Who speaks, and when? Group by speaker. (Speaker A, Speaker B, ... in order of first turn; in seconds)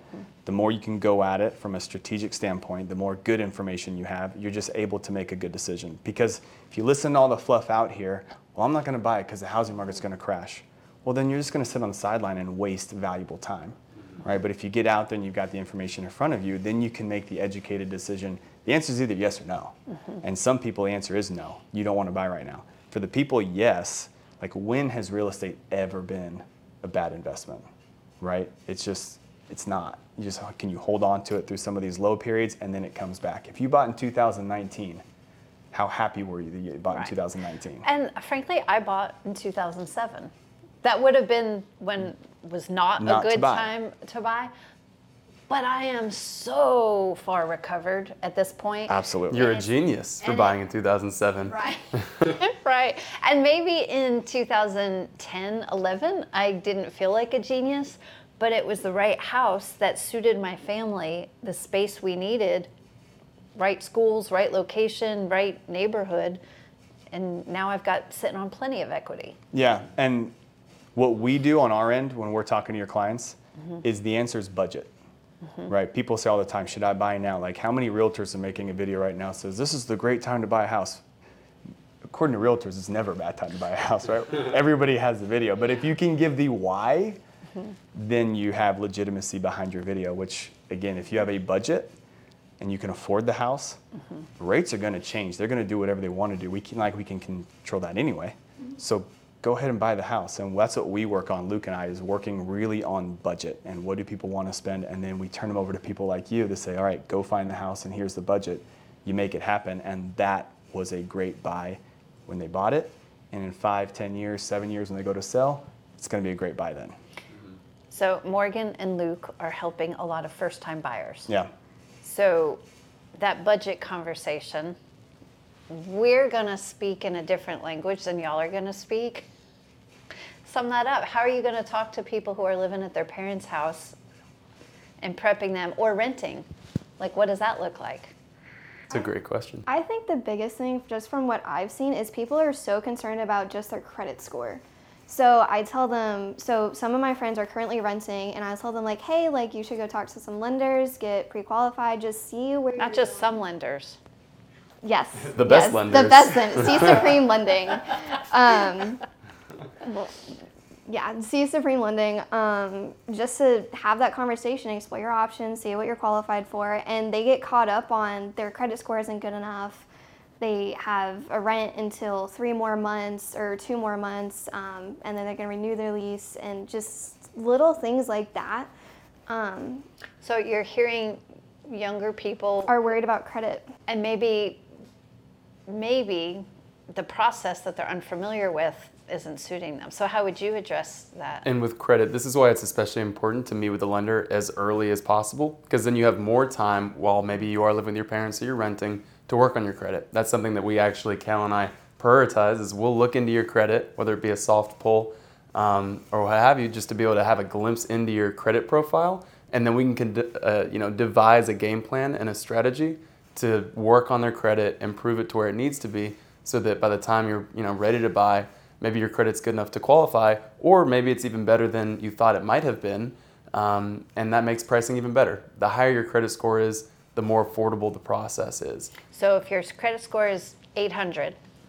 Speaker A: 0.5-27.7, 28.2-35.0, 35.7-37.9, 43.0-43.7, 48.9-49.5, 69.5-70.3, 71.0-74.9, 75.7-81.0, 82.1-87.2, 87.9-92.0, 92.6-93.8, 94.4-117.0
Speaker B: 37.8-40.3, 40.8-44.5, 45.5-49.0, 52.2-62.7, 63.6-66.4, 67.1-69.4, 117.9-121.3, 122.0-122.6, 123.2-124.8, 125.7-129.3, 130.4-134.0, 135.0-136.5, 137.0-138.1, 152.8-154.0, 180.2-182.8, 183.9-184.6, 185.7-191.5, 229.1-231.4
Speaker C: 49.3-52.3, 138.9-139.7, 155.3-157.2, 191.4-228.9
Speaker D: 139.7-153.3, 154.8-159.0, 159.8-160.4, 160.9-169.9, 170.4-178.7, 179.3-179.8, 182.7-183.7